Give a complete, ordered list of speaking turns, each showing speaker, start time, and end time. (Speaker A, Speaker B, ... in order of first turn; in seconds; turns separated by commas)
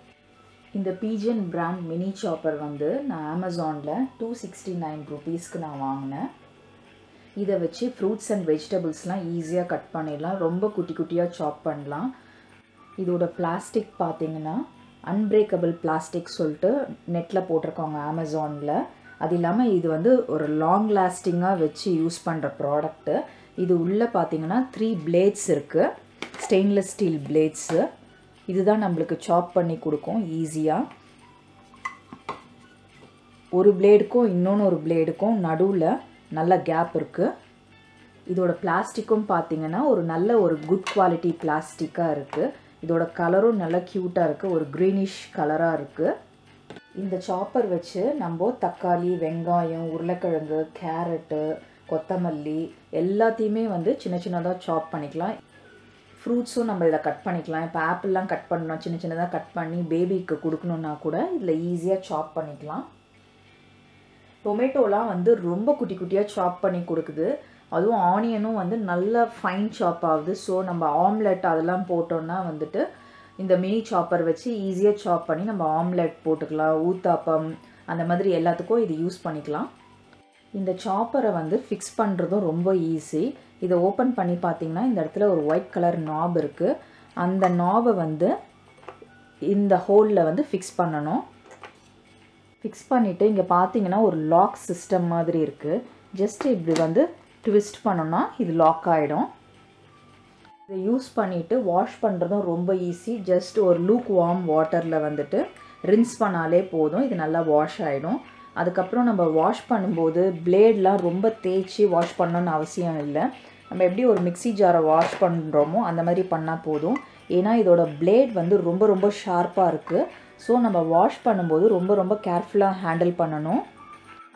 Speaker A: 0.7-6.3, Speaker A: 7.4-12.1, Speaker A: 13.0-27.9, Speaker A: 28.5-30.8, Speaker A: 33.5-37.3, Speaker A: 38.3-46.1, Speaker A: 47.0-55.4, Speaker A: 56.2-62.9, Speaker A: 64.5-72.8, Speaker A: 73.4-79.7, Speaker A: 80.6-88.3, Speaker A: 89.5-91.3, Speaker A: 92.6-99.3, Speaker A: 100.7-123.6